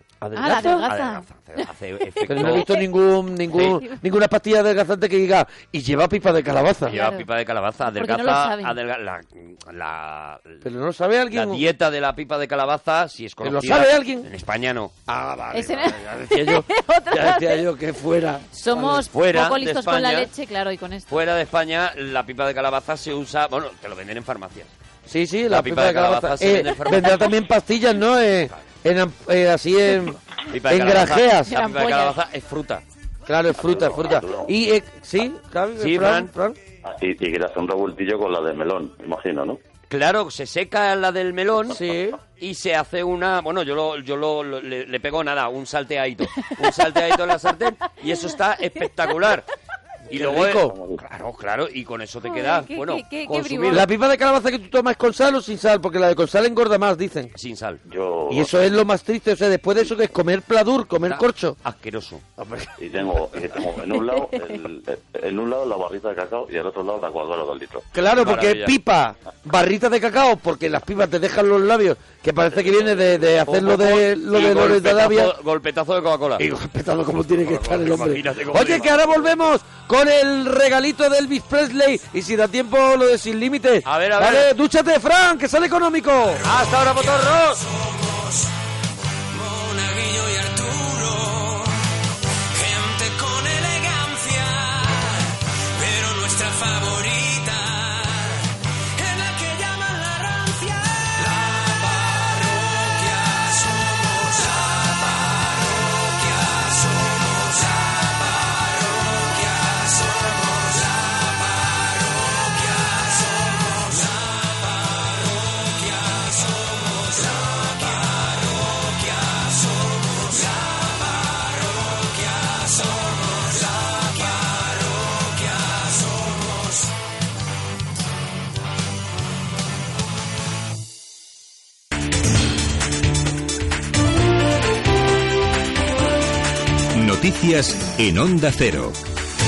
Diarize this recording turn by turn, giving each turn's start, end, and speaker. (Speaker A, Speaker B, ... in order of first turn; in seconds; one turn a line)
Speaker A: 0.2-0.9
Speaker B: 0.4-1.2
Speaker C: 0.9-2.7
Speaker A: 2.2-7.0
Speaker B: 2.5-2.8
Speaker B: 3.6-4.0
Speaker B: 6.9-7.2
Speaker C: 6.9-10.7
Speaker B: 7.9-8.8
Speaker A: 10.6-11.6
Speaker C: 11.3-14.9
Speaker A: 13.4-14.3
Speaker A: 15.1-19.0
Speaker B: 15.5-17.7
Speaker B: 18.5-21.1
Speaker C: 19.1-20.3
Speaker C: 21.1-24.7
Speaker A: 25.1-31.5
Speaker C: 25.5-27.4
Speaker C: 30.5-32.8
Speaker B: 31.5-32.2
Speaker A: 33.3-36.6
Speaker D: 33.5-34.5
Speaker C: 35.8-36.3
Speaker D: 36.8-39.6
Speaker C: 39.9-41.8
Speaker A: 41.7-42.2
Speaker C: 42.4-49.5
Speaker A: 50.1-50.7
Speaker C: 50.1-53.9
Speaker D: 50.6-51.0
Speaker B: 52.2-53.9
Speaker A: 53.7-57.3
Speaker C: 57.4-57.8
Speaker D: 57.9-58.6
Speaker A: 58.3-61.6
Speaker C: 61.1-62.2
Speaker A: 62.4-62.7
Speaker D: 62.8-67.8
Speaker A: 67.9-75.3
Speaker C: 68.1-68.8
Speaker C: 72.6-76.4
Speaker A: 76.4-86.7
Speaker C: 77.4-79.3
Speaker C: 83.9-84.5
Speaker E: 86.4-88.5
Speaker C: 86.4-87.6
Speaker E: 89.3-91.9
Speaker E: 92.5-126.9
Speaker F: 136.9-138.9